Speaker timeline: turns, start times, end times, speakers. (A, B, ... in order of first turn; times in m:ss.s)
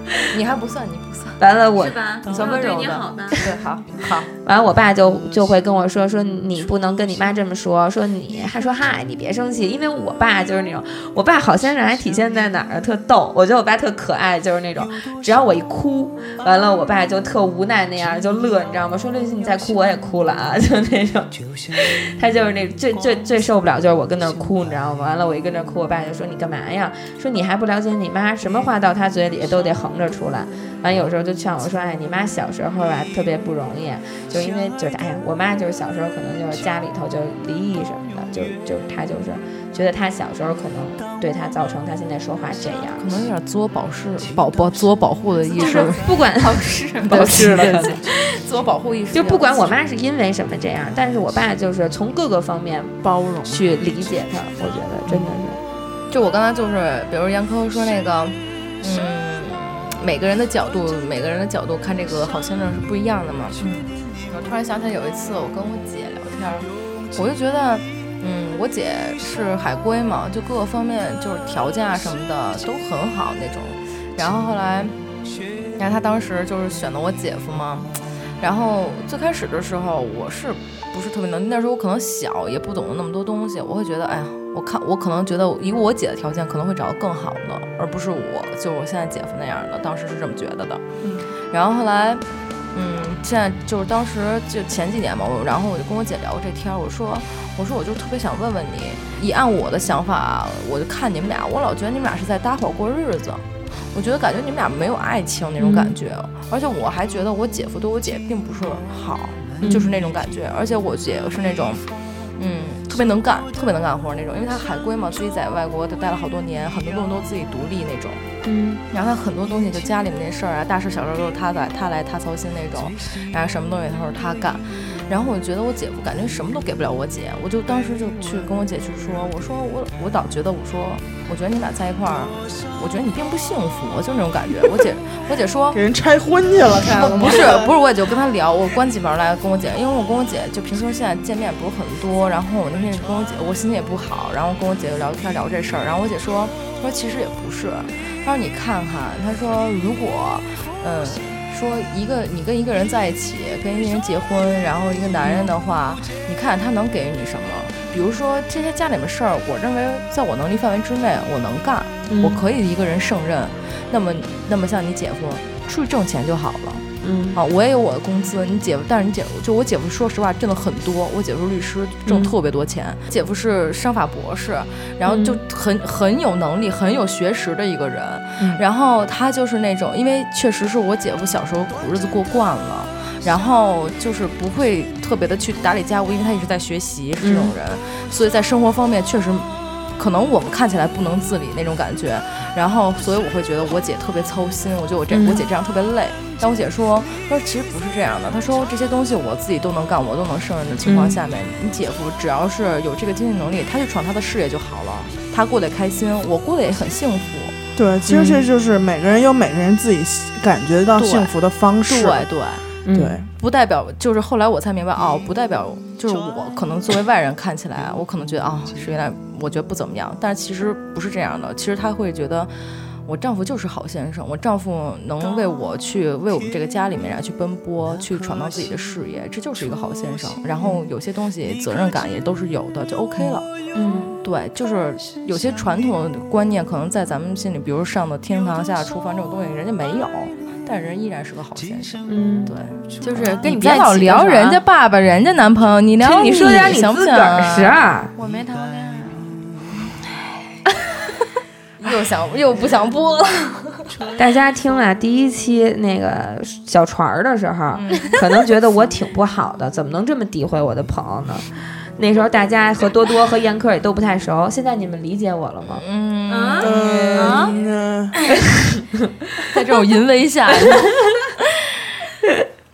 0:00.3-0:01.4 A
0:01.4-0:03.4 B
0:01.8-0:03.5 C
0:02.3-0:02.8 A
0:03.3-0:04.3 A
0:04.4-0:43.1 B
0:43.0-0:46.1 A
0:45.6-0:48.0 B
0:46.4-0:47.3 C
0:47.0-0:49.7 A
0:47.1-0:48.0 D
0:49.1-0:55.6 B
0:53.0-0:53.6 D
0:55.1-0:55.4 A
0:56.1-1:14.9 A
1:15.8-1:30.8 A
1:31.0-1:31.3 D
1:31.5-1:51.8 A
1:45.6-1:45.9 B
1:49.6-1:49.9 B
1:52.4-1:58.2 A
1:58.4-1:58.8 B
1:58.9-2:15.8 A
2:15.7-2:17.7 D
2:16.8-3:27.5 A
2:42.1-2:42.4 B
2:47.0-2:47.4 B
2:52.0-2:52.3 B
2:55.0-2:55.4 B
3:07.2-3:07.5 B
3:15.1-3:15.4 B
3:20.8-3:21.2 B
3:27.8-3:32.3 D
3:28.1-3:28.4 B
3:31.0-3:32.6 A
3:32.8-3:33.2 B
3:32.9-3:33.3 D
3:33.4-3:42.5 A
3:43.0-3:53.5 A
3:53.7-3:54.2 B
3:54.2-4:07.8 A
4:02.1-4:02.5 B
4:03.0-4:04.6 C
4:06.0-4:08.1 B
4:08.1-4:09.4 C
4:11.8-4:13.8 A
4:14.2-4:26.6 B
4:17.7-4:18.1 A
4:25.8-4:27.6 A
4:26.6-4:28.1 D
4:29.5-4:30.9 A